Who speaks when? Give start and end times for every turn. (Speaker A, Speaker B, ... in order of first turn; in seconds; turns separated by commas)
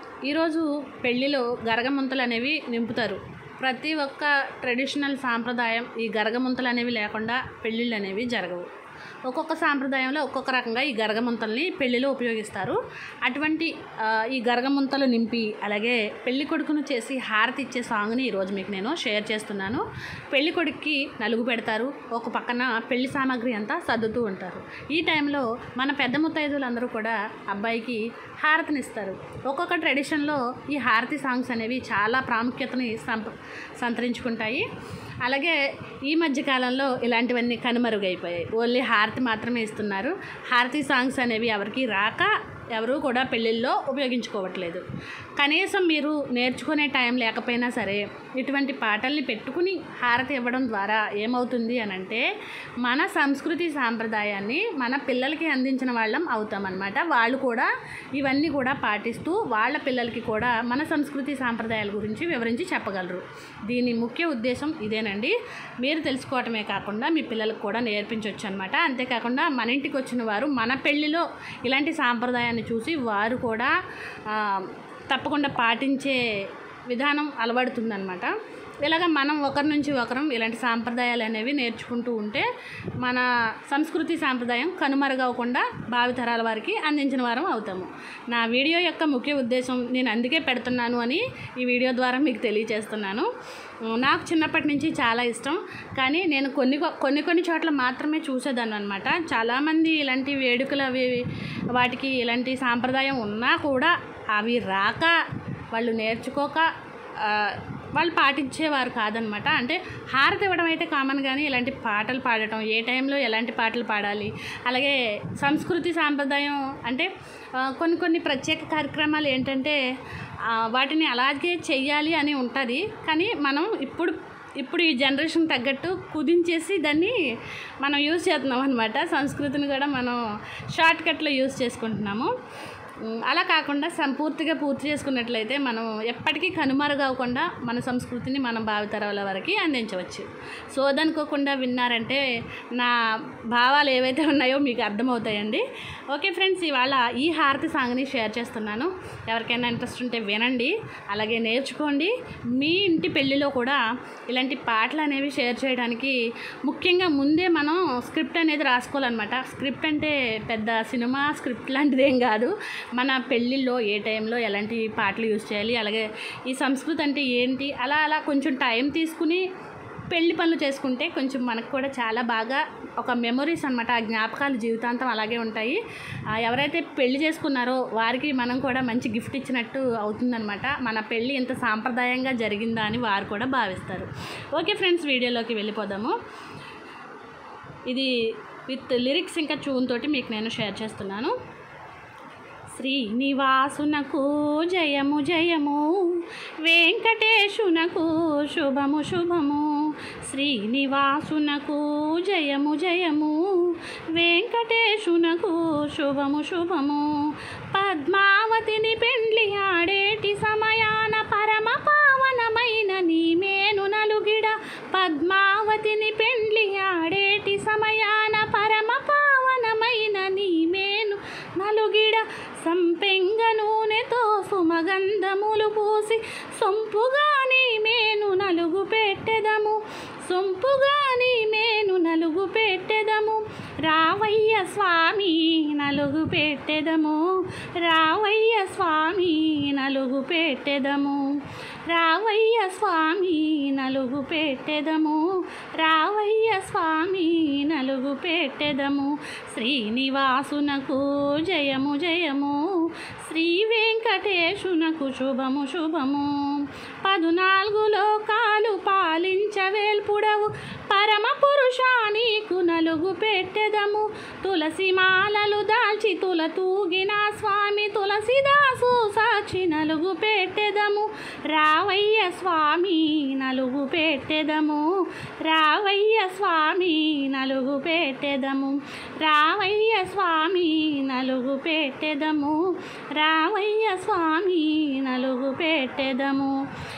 Speaker A: 0.2-8.7, Speaker A: 9.3-34.6, Speaker A: 35.2-44.8, Speaker A: 45.4-52.2, Speaker A: 52.8-73.7, Speaker A: 74.3-76.2, Speaker A: 76.9-82.5, Speaker A: 83.0-93.3, Speaker A: 93.9-105.2, Speaker A: 105.7-119.8, Speaker A: 120.5-127.1, Speaker A: 127.8-130.2, Speaker A: 130.7-132.3, Speaker A: 133.0-142.9, Speaker A: 143.5-169.4, Speaker A: 170.1-175.8, Speaker A: 176.3-186.1, Speaker A: 188.7-191.3, Speaker A: 192.8-199.8, Speaker A: 200.3-207.1, Speaker A: 207.7-237.2, Speaker A: 237.8-241.2, Speaker A: 241.9-245.2, Speaker A: 245.8-274.8, Speaker A: 275.4-282.6, Speaker A: 283.1-286.5